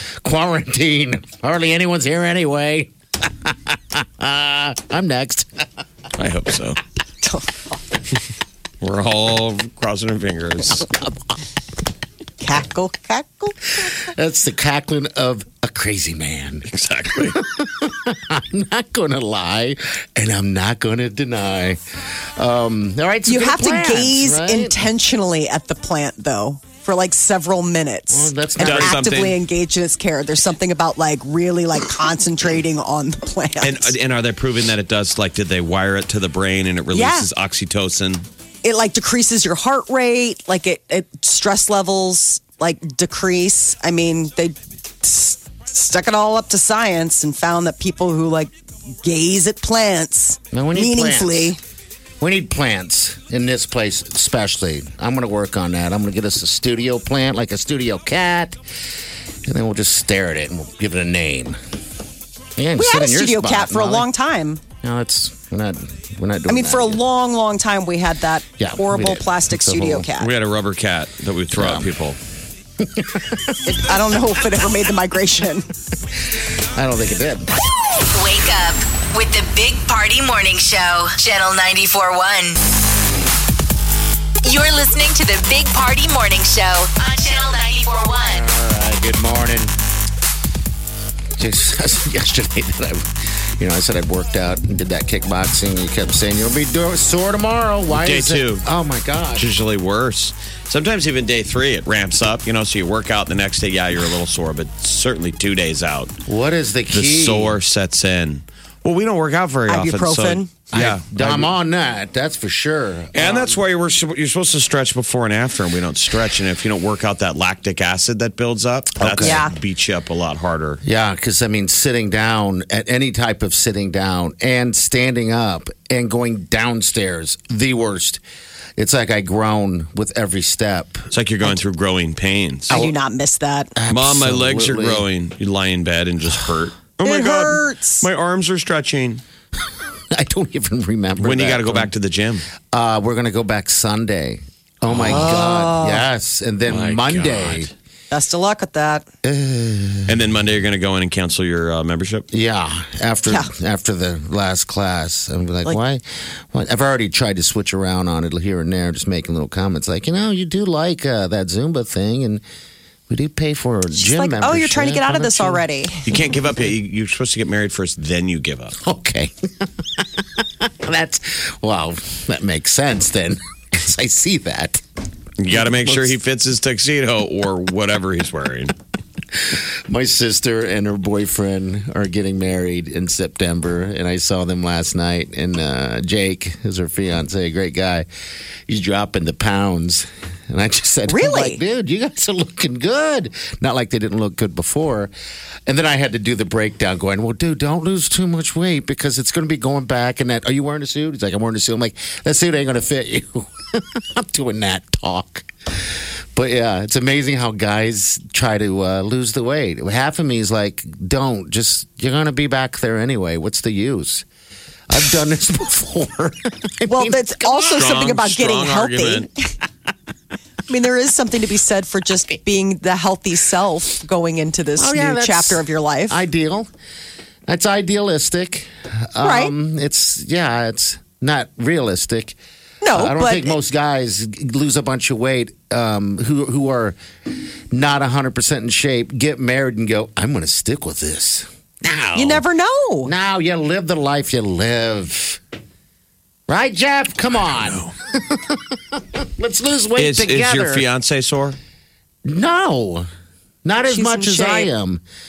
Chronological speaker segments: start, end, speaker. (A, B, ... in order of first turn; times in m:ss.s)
0:00.2-0:05.7 A
0:06.2-0:06.8 B
0:07.2-0:07.8 C
0:08.8-0:10.9 B
0:12.4-0:13.7 C
0:13.9-0:24.9 A
0:16.7-0:17.4 B
0:23.3-0:33.9 C
0:28.1-0:29.0 A
0:28.6-0:29.4 B
0:33.6-0:38.3 B
0:36.9-0:37.3 C
0:38.6-0:51.6 C
0:50.5-0:51.6 A
0:52.2-0:58.6 A
0:59.4-1:01.6 A
1:02.6-1:04.1 A
1:02.8-1:04.6 C
1:04.8-1:07.0 A
1:06.5-1:10.3 C
1:08.6-1:10.1 A
1:10.2-1:12.2 B
1:11.5-1:11.9 A
1:12.8-1:13.6 A
1:13.6-1:15.7 C
1:16.8-1:17.5 A
1:18.1-1:22.6 D
1:24.4-1:28.5 D
1:28.3-1:29.7 A
1:31.4-1:39.5 A
1:37.9-1:38.7 B
1:39.4-1:46.2 B
1:46.3-1:47.6 A
1:46.9-1:51.5 B
1:49.7-1:50.5 C
1:50.7-1:53.6 A
1:53.1-2:00.8 B
1:59.0-1:59.5 A
1:59.2-1:59.5 C
2:00.8-2:08.2 A
2:08.8-2:11.1 A
2:11.1-2:12.8 B
2:12.7-2:13.7 C
2:13.8-2:15.1 A
2:13.9-2:19.2 B
2:17.0-2:18.1 C
2:20.1-2:21.9 A
2:21.2-2:22.4 B
2:22.7-2:27.7 A
2:24.9-2:25.4 B
2:25.1-2:26.0 C
2:26.7-2:27.7 B
2:28.1-2:29.1 C
2:29.2-2:30.2 A
2:30.1-2:32.3 B
2:32.3-2:42.4 A
2:43.1-2:45.7 A
2:44.0-2:46.0 C
2:46.1-2:48.8 B
2:48.8-2:54.8 A
2:55.4-2:58.7 B
2:59.4-3:08.1 A
3:08.7-3:15.1 A
3:11.1-3:11.6 C
3:15.7-3:34.3 A
3:34.9-3:37.8 A
3:36.9-3:39.5 C
3:37.7-3:39.3 B
3:40.7-3:46.2 C
3:44.8-3:46.7 A
3:47.5-3:52.4 A
3:49.2-3:49.5 C
3:52.8-3:53.6 C
3:52.9-3:57.0 A
3:57.7-4:02.4 A
4:02.2-4:03.1 C
4:03.0-4:05.4 A
4:06.5-4:10.8 A
4:07.6-4:07.9 B
4:10.0-4:11.6 B
4:12.2-4:13.1 A
4:13.6-4:15.0 A
4:13.9-4:14.7 C